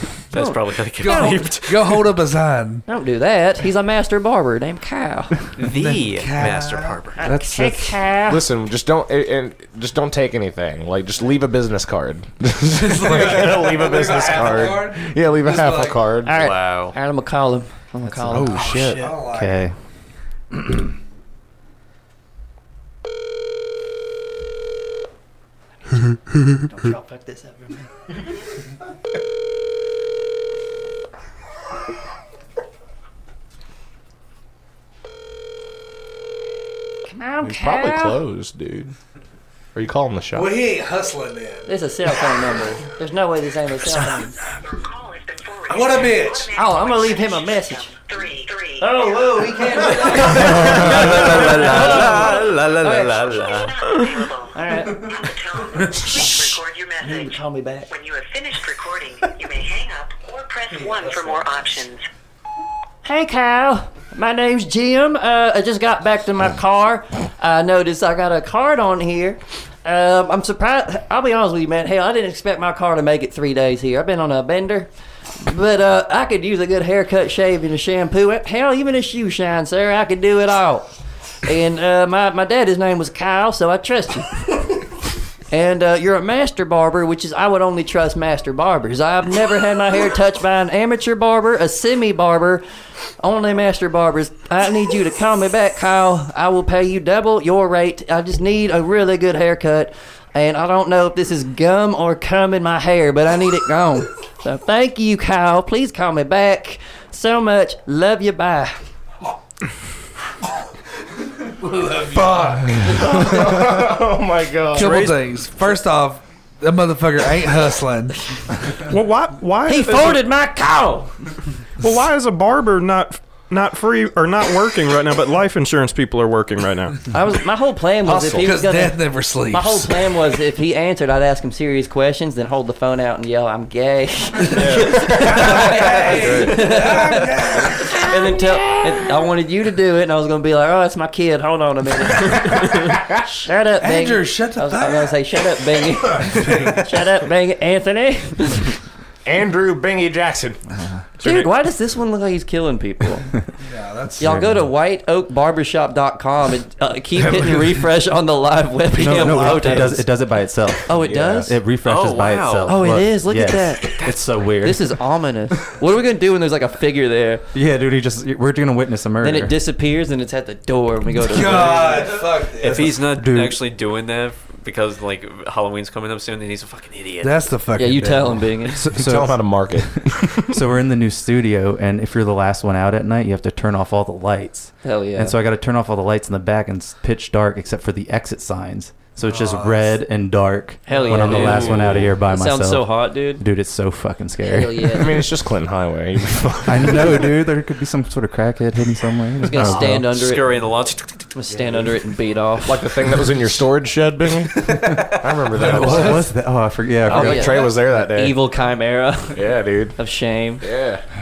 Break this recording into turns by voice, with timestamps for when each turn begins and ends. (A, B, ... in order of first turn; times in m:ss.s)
0:00.3-0:02.1 A
0:00.3-0:01.4 B
0:01.0-0:02.8 C
0:02.9-0:05.4 B
0:05.6-0:08.1 C
0:05.6-0:07.2 A
0:07.2-0:08.4 B
0:08.2-0:16.5 D
0:12.7-0:16.0 C
0:16.2-0:18.6 B
0:16.3-0:16.9 A
0:18.0-0:18.5 E
0:18.3-0:19.1 D
0:18.5-0:19.7 C
0:19.3-0:19.7 E
0:26.5-0:27.9 B
0:37.1-0:38.2 B
0:37.4-0:38.9 D
0:39.7-0:40.6 D
0:40.3-0:41.7 C
0:41.7-0:44.4 B
0:44.6-0:50.0 F
0:45.7-0:46.6 C
0:46.5-0:47.9 B
0:48.8-0:53.6 B
0:49.6-0:52.2 C
0:49.9-0:54.2 A
0:52.4-1:02.0 F
0:54.5-0:55.1 B
0:56.0-0:56.3 B
0:57.0-0:57.9 B
1:01.0-1:01.4 C
1:03.0-1:20.9 B
1:21.4-1:24.4 B
1:25.5-1:32.6 B
1:33.2-1:48.8 B
1:51.4-1:53.2 C
1:52.1-1:55.1 D
1:54.7-1:58.8 C
1:54.8-1:55.1 G
1:58.8-2:00.3 G
1:59.6-2:01.1 B
2:01.8-2:07.0 G
2:07.1-2:28.8 B
2:08.0-2:08.5 D
2:08.4-2:10.0 C
2:14.5-2:16.7 A
2:14.6-2:18.0 C
2:23.8-2:25.2 C
2:26.1-2:26.8 C
2:29.2-2:30.6 D
2:31.2-2:31.5 G
2:31.2-2:33.3 B
2:33.6-2:34.4 C
2:34.2-2:34.7 E
2:34.2-2:40.0 B
2:37.3-2:37.7 C
2:38.9-2:40.0 C
2:39.0-2:44.9 E
2:40.8-2:41.5 B
2:40.9-2:41.5 D
2:41.8-2:42.8 A
2:42.6-2:47.4 B
2:47.5-2:49.5 E
2:49.2-2:52.2 B
2:51.1-2:53.1 C
2:52.6-2:57.4 A
2:53.1-2:53.6 E
2:57.2-2:59.3 C
2:57.8-2:58.8 B
2:58.9-3:00.5 D
2:59.0-2:59.4 E
3:00.3-3:15.0 E
3:04.8-3:05.3 B
3:09.2-3:09.9 C
3:10.9-3:13.4 B
3:11.0-3:12.0 A
3:14.4-3:15.2 B
3:14.9-3:17.3 D
3:16.6-3:20.1 E
3:19.4-3:20.7 B
3:19.6-3:21.3 A
3:19.6-3:19.9 D
3:21.3-3:23.0 B
3:22.6-3:26.3 D
3:25.5-3:26.2 C
3:25.6-3:27.6 E
3:27.0-3:28.4 D
3:27.1-3:30.6 B
3:29.3-3:30.0 D
3:30.6-3:31.0 D